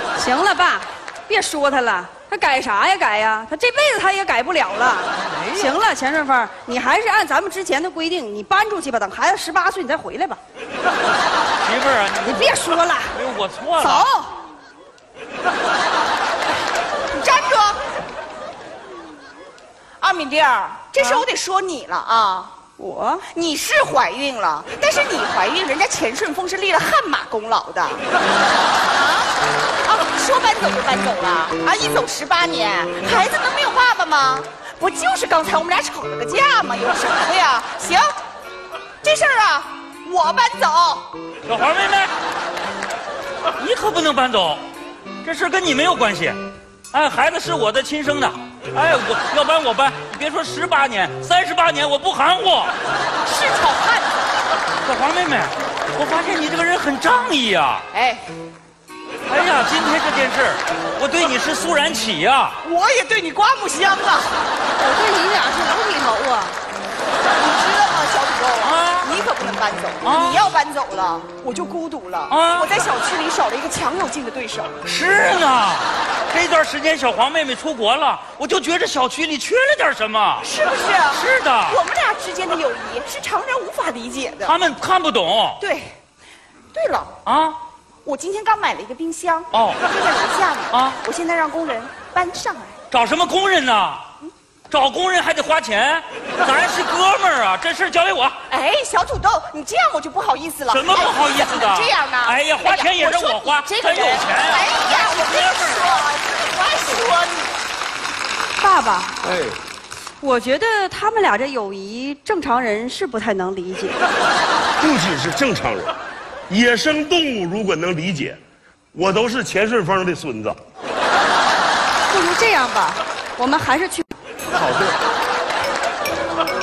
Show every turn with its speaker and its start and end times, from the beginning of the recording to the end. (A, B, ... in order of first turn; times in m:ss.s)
0:00.2-0:10.4 A
0:05.2-0:05.8 B
0:11.6-0:14.1 B
0:12.2-0:13.2 A
0:13.8-0:14.3 A
0:17.1-0:17.9 C
0:20.0-0:22.5 C
0:22.8-0:23.2 A
0:23.3-0:28.0 C
0:28.8-0:38.1 C
0:39.0-0:41.1 C
0:41.4-0:42.1 B
0:43.6-0:44.6 B
0:45.2-0:46.4 B
0:46.9-0:52.7 B
0:53.2-0:54.2 C
0:54.8-0:57.8 B
0:57.9-0:58.3 C
0:59.2-1:02.6 B
1:02.6-1:04.4 C
1:04.8-1:06.6 A
1:07.3-1:14.7 C
1:08.6-1:09.1 B
1:10.0-1:10.5 B
1:12.3-1:12.7 B
1:14.8-1:20.5 B
1:20.4-1:24.6 C
1:21.1-1:21.8 B
1:24.4-1:25.6 B
1:25.6-1:25.9 C
1:26.7-1:27.2 C
1:27.2-1:27.6 B
1:28.0-1:32.8 C
1:29.5-1:29.8 B
1:30.7-1:31.0 B
1:32.9-1:34.0 B
1:34.7-1:38.4 B
1:38.5-1:47.5 C
1:40.7-1:45.9 B
1:48.6-1:49.2 A
1:49.2-1:49.6 D
1:50.2-1:54.0 A
1:54.8-1:55.9 D
1:56.5-1:58.4 D
1:58.9-2:00.6 D
2:02.1-2:04.1 A
2:04.5-2:05.0 D